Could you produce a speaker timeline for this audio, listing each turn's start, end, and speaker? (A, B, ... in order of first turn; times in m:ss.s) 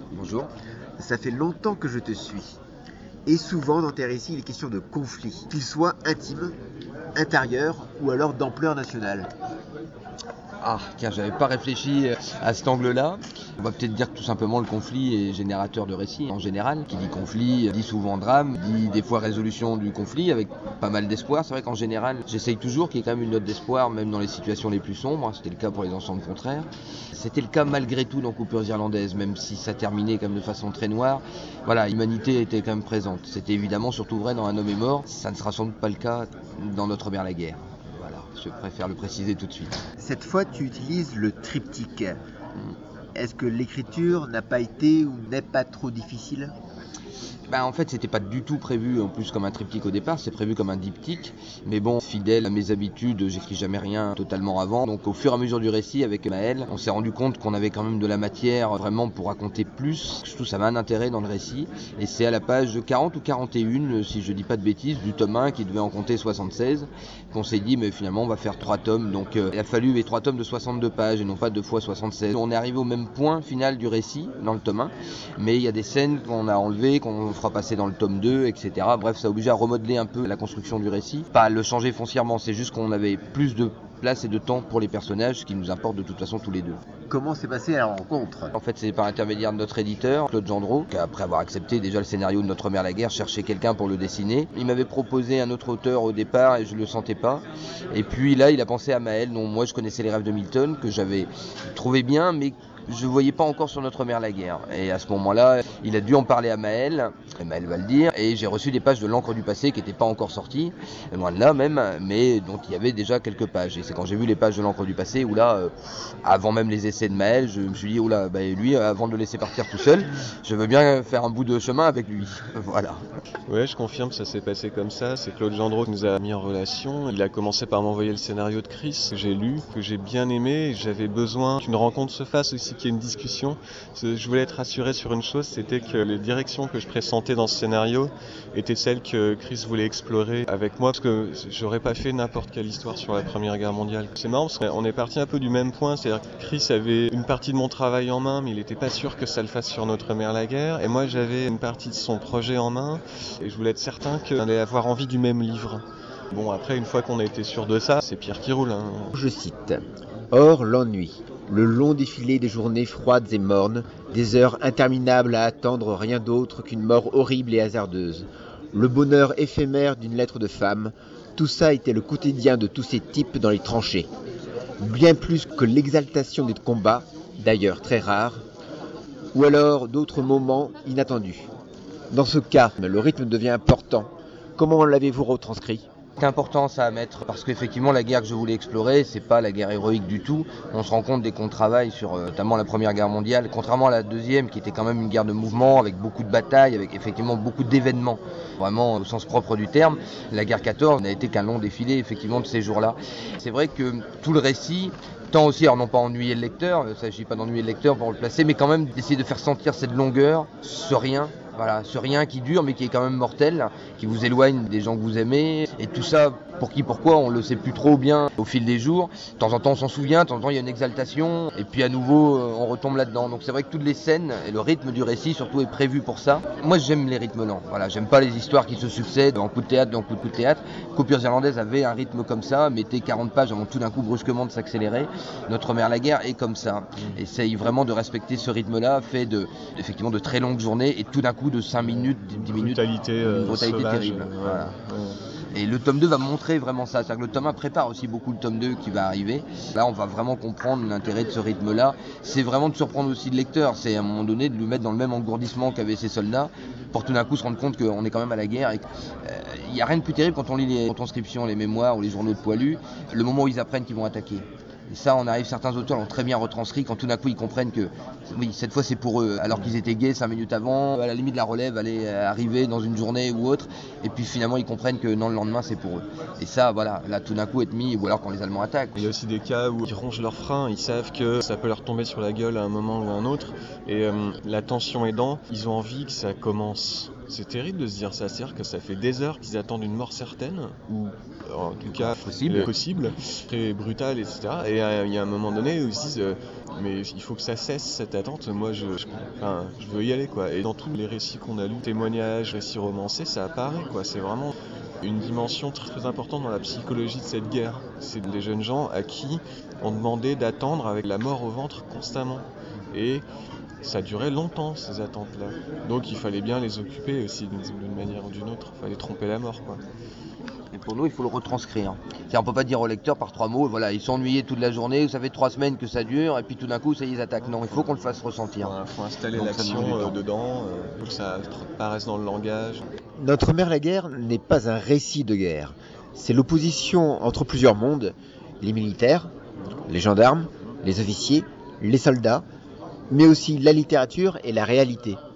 0:00.1-0:00.5 A
0:01.0-0:02.6 B
0:03.3-0:06.6 B
0:07.2-0:09.3 B
0:10.6-0:39.8 A
0:40.0-0:42.2 B
0:43.2-0:46.5 B
0:47.5-1:26.8 A
1:27.1-1:28.5 B
1:28.6-1:55.7 A
1:56.2-2:03.0 A
2:03.5-2:39.1 C
2:39.2-2:54.1 B
2:54.8-2:58.4 B
2:59.3-3:01.5 B
3:02.1-3:05.9 B
3:06.2-4:04.7 A
4:02.4-4:05.2 C
4:05.5-4:39.0 A
4:39.0-5:13.2 C
4:52.0-4:52.7 A
5:13.8-5:19.8 C
5:20.7-5:28.8 A
5:27.4-5:32.8 C
5:29.3-5:30.2 A
5:33.2-5:39.3 B
5:39.9-5:42.4 B
5:43.1-5:45.2 B